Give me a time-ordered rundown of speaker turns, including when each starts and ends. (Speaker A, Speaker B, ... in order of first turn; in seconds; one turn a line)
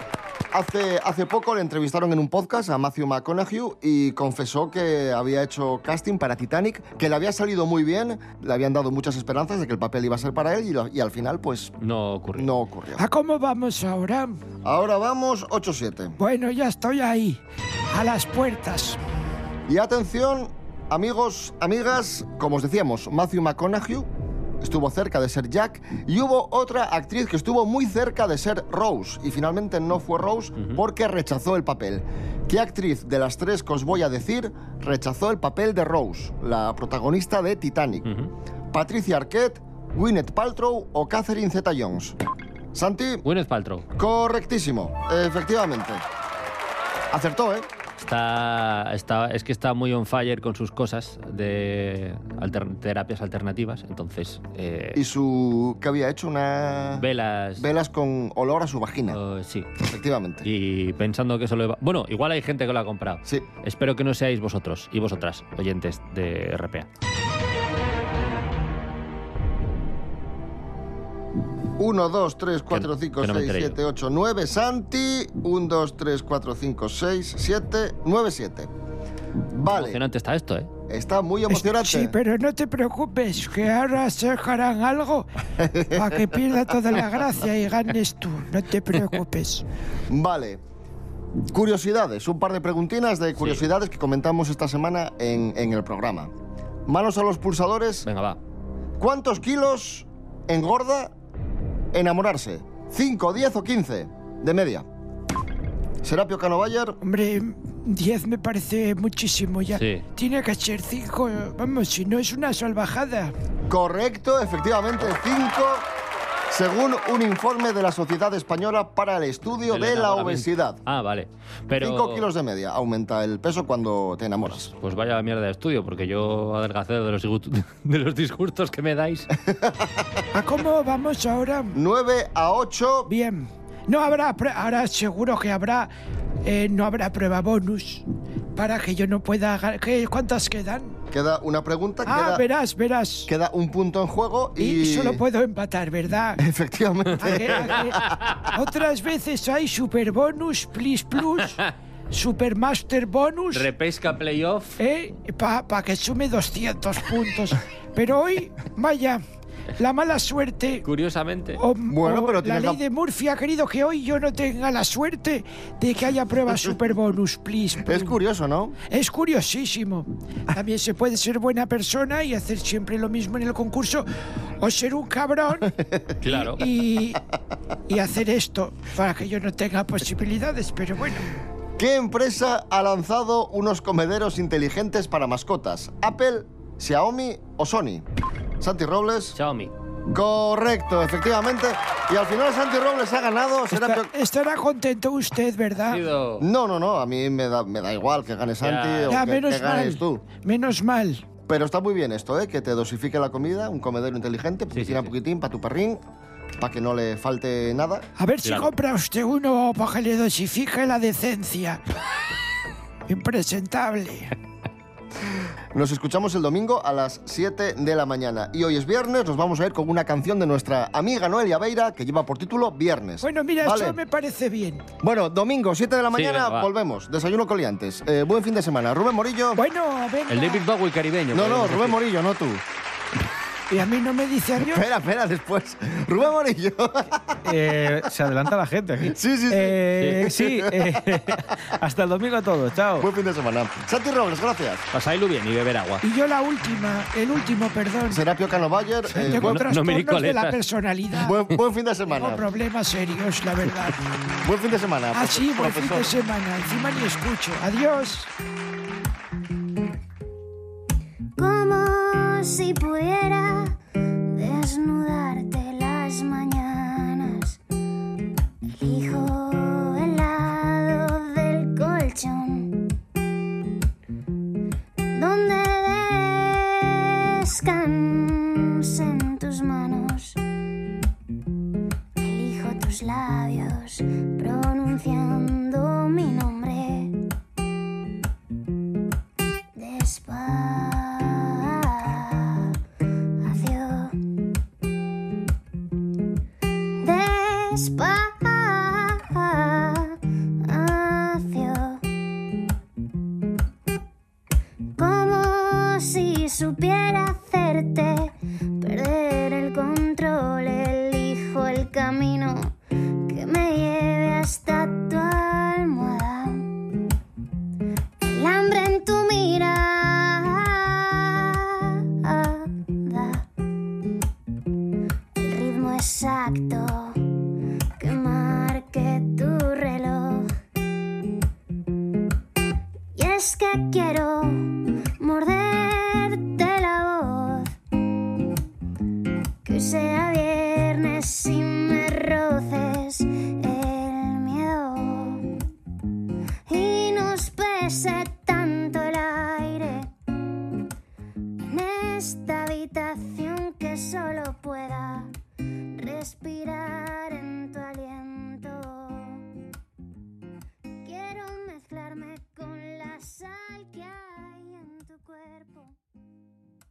Speaker A: 0.5-11.7
Speaker B: 11.8-12.5
Speaker A: 12.3-13.1
Speaker C: 13.0-14.4
Speaker A: 14.6-16.2
Speaker C: 16.2-17.4
Speaker C: 17.9-19.0
Speaker A: 19.7-24.1
Speaker A: 24.6-38.1
Speaker B: 38.1-38.3
Speaker A: 38.7-42.2
Speaker A: 42.7-43.2
Speaker B: 43.2-43.9
Speaker A: 44.0-46.0
Speaker A: 47.1-47.7
Speaker B: 48.0-55.0
Speaker A: 55.0-59.2
Speaker B: 57.0-57.7
Speaker B: 59.1-59.7
Speaker A: 59.8-60.5
Speaker B: 60.4-66.9
Speaker A: 71.8-78.7
Speaker B: 72.7-73.8
Speaker A: 79.5-80.0
Speaker B: 79.7-80.7
Speaker A: 80.9-82.2
Speaker C: 81.5-85.3
Speaker A: 85.6-86.1
Speaker C: 85.9-89.7
Speaker A: 90.1-90.6
Speaker A: 91.5-96.3
Speaker A: 96.9-98.1
Speaker B: 98.1-98.4
Speaker A: 99.0-101.1
Speaker A: 101.9-104.9
Speaker A: 106.0-107.0
Speaker C: 107.0-113.3
Speaker B: 109.7-110.0
Speaker A: 113.7-115.9
Speaker A: 116.5-120.8
Speaker B: 119.7-122.3
Speaker A: 121.8-124.7
Speaker B: 124.5-129.3
Speaker A: 129.4-130.2
Speaker C: 130.3-131.8
Speaker A: 131.7-133.1
Speaker C: 133.1-135.9
Speaker C: 136.4-141.0
Speaker A: 141.1-142.4
Speaker C: 142.1-143.3
Speaker A: 143.3-145.2
Speaker C: 144.6-146.4
Speaker A: 146.4-148.2
Speaker C: 147.2-151.6
Speaker B: 147.6-148.1
Speaker C: 152.1-153.7
Speaker B: 153.5-154.8
Speaker C: 154.8-159.2
Speaker C: 159.8-160.8
Speaker B: 160.8-161.6
Speaker C: 161.6-168.2
Speaker A: 161.9-162.8
Speaker A: 167.8-168.8
Speaker C: 168.9-174.1
Speaker C: 174.6-175.7
Speaker A: 175.8-176.1
Speaker B: 176.2-176.7
Speaker C: 176.2-177.2
Speaker C: 177.9-181.3
Speaker A: 181.8-188.1
Speaker A: 188.6-189.4
Speaker B: 189.4-189.7
Speaker A: 190.1-194.1
Speaker C: 193.7-196.0
Speaker B: 195.8-196.4
Speaker A: 196.4-200.3
Speaker B: 198.6-199.2
Speaker C: 199.1-201.2
Speaker A: 201.5-206.0
Speaker B: 204.7-205.1
Speaker A: 206.6-208.1
Speaker C: 208.2-211.8
Speaker B: 208.4-208.7
Speaker C: 213.1-214.3
Speaker A: 215.7-224.0
Speaker C: 223.2-224.8
Speaker A: 225.0-229.6
Speaker B: 226.1-226.7
Speaker C: 229.6-230.7
Speaker B: 230.3-232.0
Speaker A: 231.3-232.6
Speaker C: 233.7-234.9
Speaker A: 234.7-237.4
Speaker D: 237.4-243.1
Speaker A: 239.0-240.9
Speaker A: 243.0-244.8
Speaker B: 244.9-246.0
Speaker C: 246.0-248.2
Speaker A: 248.1-249.7
Speaker B: 249.1-250.6
Speaker C: 249.1-251.4
Speaker A: 251.2-252.4
Speaker C: 252.1-254.0
Speaker A: 254.4-256.1
Speaker C: 255.1-258.3
Speaker E: 261.4-263.7
Speaker E: 264.4-267.6
Speaker E: 268.8-272.8
Speaker E: 275.1-280.4
Speaker E: 282.2-287.1
Speaker E: 289.8-292.7
Speaker E: 293.4-294.2
Speaker E: 297.0-302.0
Speaker E: 305.0-312.7
Speaker E: 313.3-316.7
Speaker E: 318.2-323.5
Speaker E: 325.4-327.2
Speaker E: 328.0-330.5
Speaker E: 333.1-337.7
Speaker E: 339.6-345.4
Speaker E: 346.7-350.1
Speaker E: 351.7-355.3
Speaker E: 356.0-359.5
Speaker E: 361.0-366.0